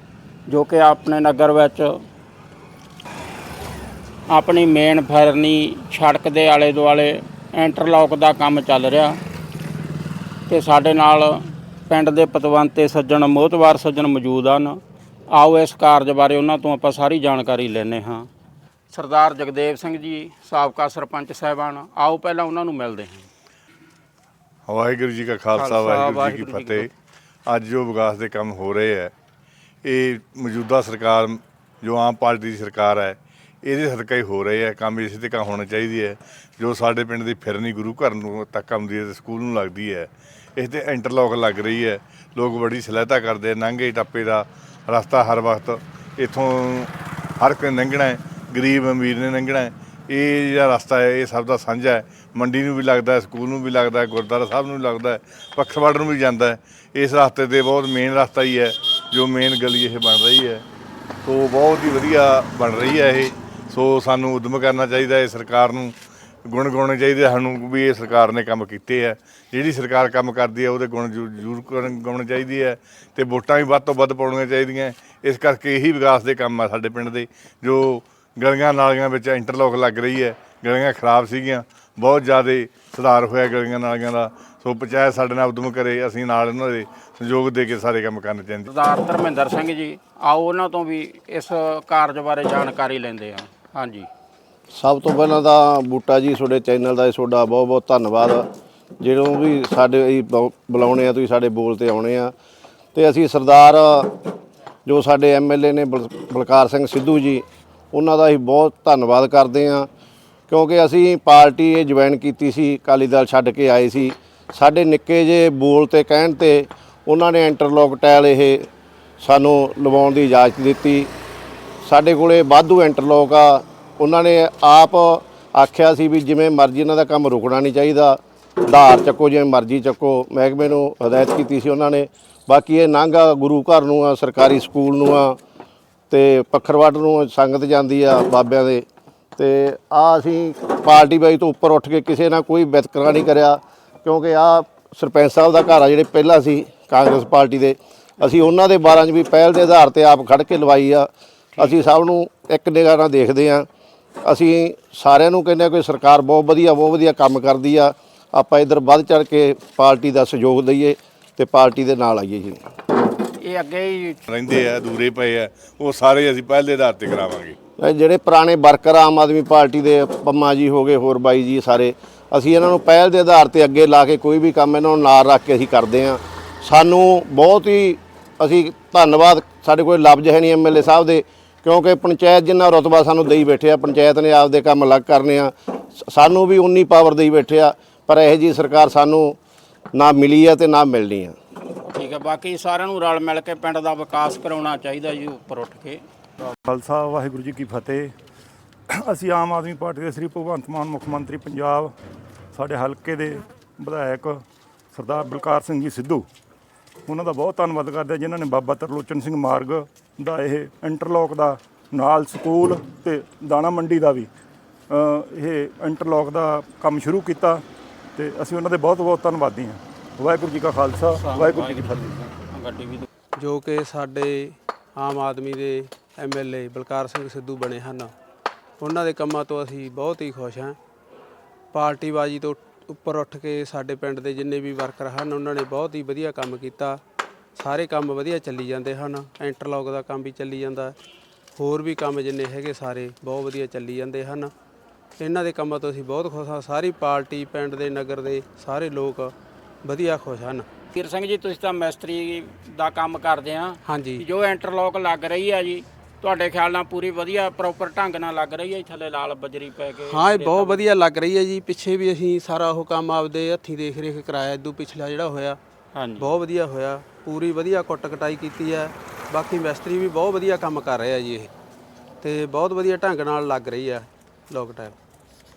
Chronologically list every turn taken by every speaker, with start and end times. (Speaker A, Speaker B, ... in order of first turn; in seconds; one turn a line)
Speaker A: 0.5-2.0
Speaker A: 4.3-9.2
Speaker A: 10.5-14.8
Speaker A: 15.3-18.3
Speaker A: 18.9-23.3
Speaker B: 24.7-26.9
Speaker A: 25.6-26.9
Speaker B: 27.5-29.1
Speaker B: 29.8-60.6
Speaker B: 61.2-88.7
Speaker A: 88.7-94.1
Speaker C: 94.7-98.5
Speaker C: 99.0-102.3
Speaker C: 103.0-104.1
Speaker C: 104.9-109.9
Speaker C: 110.5-118.7
Speaker C: 119.2-121.1
Speaker C: 121.8-135.4
Speaker C: 136.1-138.8
Speaker C: 139.4-153.7
Speaker C: 154.2-162.6
Speaker A: 163.4-164.2
Speaker B: 164.3-167.6
Speaker C: 167.8-189.4
Speaker C: 189.9-191.4
Speaker A: 191.9-196.0
Speaker D: 196.7-198.1
Speaker D: 199.0-201.9
Speaker D: 202.5-204.4
Speaker D: 204.9-206.3
Speaker D: 207.1-214.3
Speaker D: 214.9-217.6
Speaker D: 218.2-222.1
Speaker A: 221.2-223.1
Speaker E: 223.4-228.1
Speaker E: 228.8-230.8
Speaker E: 231.7-237.0
Speaker E: 237.6-241.0
Speaker E: 241.6-244.5
Speaker E: 245.2-250.7
Speaker A: 250.9-260.9
Speaker E: 253.8-254.2
Speaker E: 260.1-265.6
Speaker A: 265.9-266.3
Speaker E: 266.2-271.5
Speaker E: 272.2-275.0